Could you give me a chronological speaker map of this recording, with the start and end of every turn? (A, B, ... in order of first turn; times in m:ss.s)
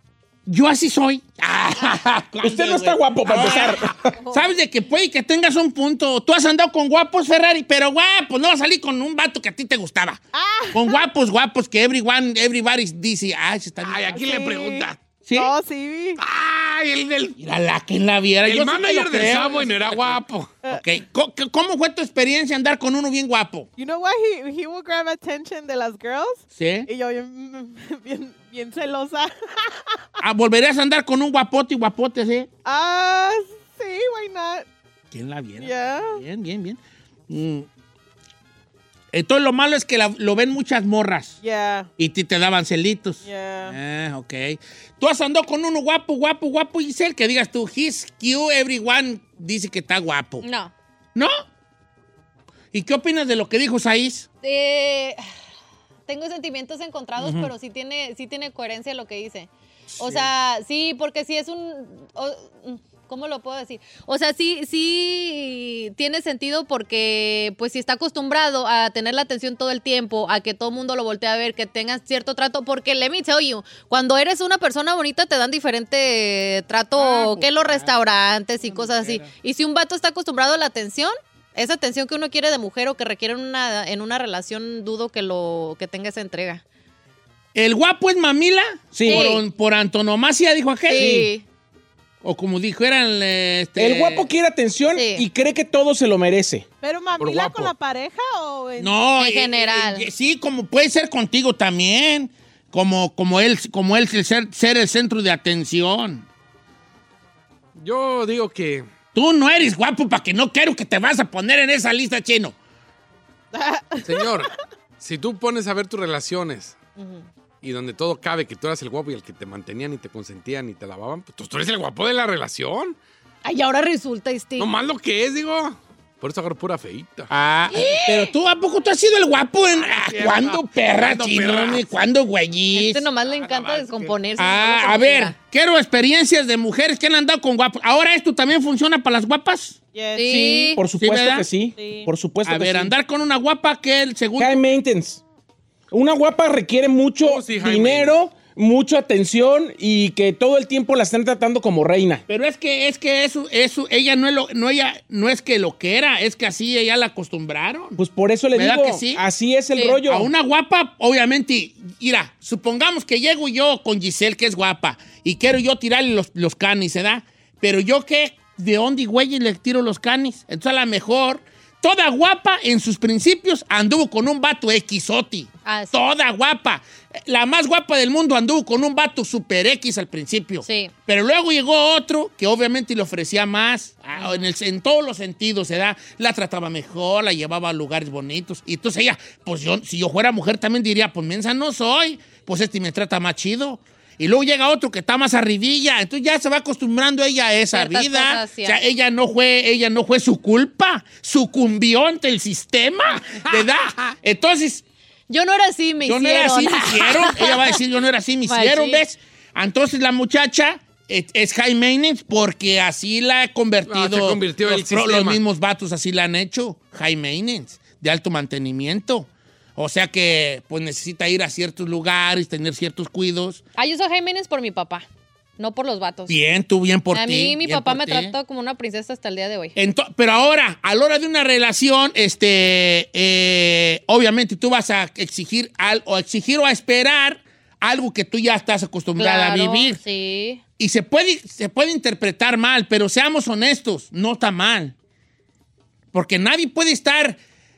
0:00.4-0:10.2 A
0:02.4-0:04.1 B
0:10.3-0:11.0 C
0:10.7-0:14.2 A
0:13.8-0:15.0 D
0:14.1-0:16.2 C
0:15.2-0:15.5 A
0:16.2-0:17.4 D
0:17.4-0:20.2 A
0:18.4-0:20.5 D
0:20.7-0:23.7 A
0:23.8-0:30.0 C
0:26.5-0:26.9 A
0:30.2-0:32.5 A
0:32.6-0:34.6 C
0:35.1-0:37.7 A
0:35.6-0:36.2 C
0:39.1-0:41.4 A
0:41.4-0:41.9 C
0:42.0-0:50.4 A
0:43.2-0:43.8 C
0:50.4-0:50.7 E
0:51.1-0:51.4 A
0:52.7-0:54.3 A
0:54.4-0:55.2 E
0:56.1-1:26.6 E
0:57.2-0:57.5 A
0:59.9-1:00.2 A
1:17.0-1:17.9 A
1:18.6-1:19.3 A
1:27.5-1:31.2 A
1:29.0-1:29.4 B
1:29.0-1:29.4 E
1:30.9-1:31.4 E
1:30.9-1:31.3 B
1:32.2-1:34.3 A
1:33.8-1:36.6 B
1:34.9-1:35.2 E
1:36.8-1:39.0 C
1:37.2-1:37.7 D
1:38.8-1:46.2 A
1:39.2-1:40.0 E
1:47.8-1:48.8 D
1:49.1-1:52.5 A
1:53.5-1:54.5 C
1:54.0-1:56.8 D
1:57.0-1:57.2 E
1:57.6-2:03.0 D
2:03.4-2:04.7 E
2:04.6-2:07.3 D
2:07.3-2:13.0 A
2:07.7-2:08.2 E
2:09.8-2:11.9 D
2:12.7-2:15.3 E
2:13.3-2:14.2 D
2:14.4-2:19.8 A
2:19.9-2:20.4 C
2:20.1-2:20.8 E
2:20.3-2:22.9 B
2:21.0-2:21.5 A
2:21.8-2:22.1 C
2:22.4-2:24.6 A
2:24.4-2:25.2 B
2:25.9-2:32.2 B
2:27.2-2:28.2 D
2:32.3-2:38.0 A
2:38.0-2:40.3 B
2:38.5-2:39.2 A
2:40.0-3:24.8 A
2:55.6-2:56.0 E
3:00.6-3:00.9 E
3:04.2-3:04.5 E
3:17.7-3:18.8 E
3:25.3-3:27.8 E
3:26.0-3:43.6 A
3:28.5-3:29.0 E
3:33.9-3:35.4 D
3:43.8-3:45.0 E
3:45.6-3:46.4 E
3:46.3-3:48.3 A
3:47.1-3:49.8 E
3:49.8-4:00.0 A
3:59.2-4:00.6 E
4:00.8-4:04.9 A
4:06.1-4:07.4 A